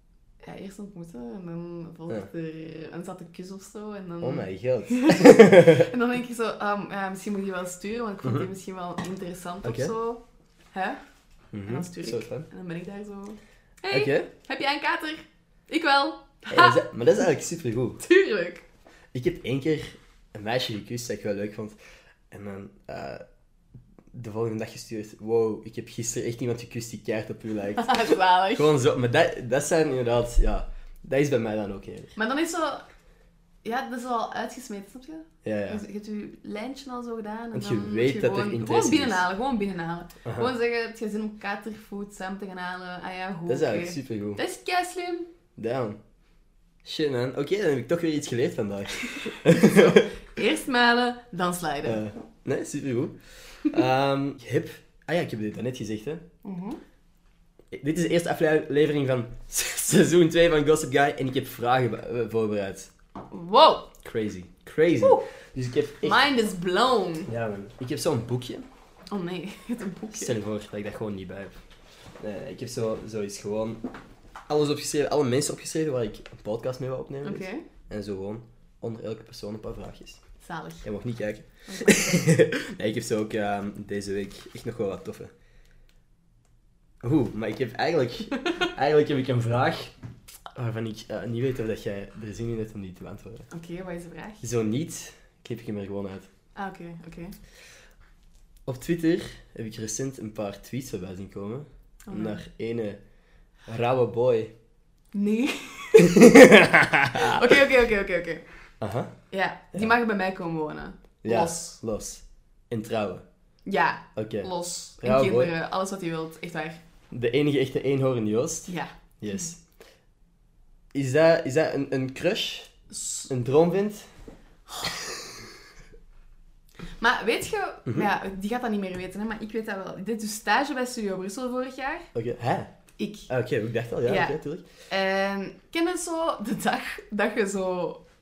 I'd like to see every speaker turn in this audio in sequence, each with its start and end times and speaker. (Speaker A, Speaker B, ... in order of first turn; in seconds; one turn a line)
Speaker A: 0.4-10.2
Speaker B: 4.2-5.9
Speaker B: 8.2-8.5
Speaker B: 9.6-9.9
Speaker A: 10.7-11.0
Speaker B: 11.5-12.5
Speaker A: 11.7-16.8
Speaker B: 13.9-14.3
Speaker B: 16.5-18.0
Speaker A: 18.0-18.6
Speaker B: 19.1-21.8
Speaker B: 22.3-23.2
Speaker B: 24.1-32.1
Speaker A: 27.8-28.7
Speaker A: 32.1-32.8
Speaker A: 33.6-45.3
Speaker B: 35.4-35.8
Speaker B: 37.5-39.2
Speaker B: 40.2-40.5
Speaker B: 43.5-44.4
Speaker B: 45.6-46.0
Speaker B: 46.8-50.1
Speaker A: 49.2-52.0
Speaker B: 51.8-56.2
Speaker A: 56.4-56.8
Speaker B: 57.7-62.9
Speaker A: 63.3-63.9
Speaker B: 64.0-66.3
Speaker A: 66.0-67.3
Speaker B: 67.2-68.7
Speaker A: 69.1-70.4
Speaker B: 70.1-71.5
Speaker B: 72.2-73.8
Speaker B: 74.5-80.2
Speaker A: 77.2-77.6
Speaker A: 80.4-80.8
Speaker B: 80.8-85.3
Speaker A: 81.7-82.3
Speaker B: 87.0-89.9
Speaker B: 90.5-93.5
Speaker A: 93.5-94.4
Speaker B: 94.4-96.3
Speaker A: 96.5-97.3
Speaker B: 98.7-103.0
Speaker A: 102.1-102.4
Speaker B: 103.7-104.5
Speaker A: 105.1-106.5
Speaker B: 106.0-107.4
Speaker A: 107.1-108.4
Speaker B: 108.8-109.1
Speaker A: 109.3-111.8
Speaker B: 111.2-113.2
Speaker A: 113.6-116.8
Speaker B: 114.2-115.5
Speaker B: 117.1-119.6
Speaker A: 118.7-118.9
Speaker B: 120.9-122.8
Speaker A: 122.9-123.3
Speaker B: 123.3-124.1
Speaker A: 127.0-132.1
Speaker B: 132.1-132.7
Speaker A: 133.0-133.3
Speaker B: 133.3-134.6
Speaker A: 134.0-134.4
Speaker A: 134.9-138.0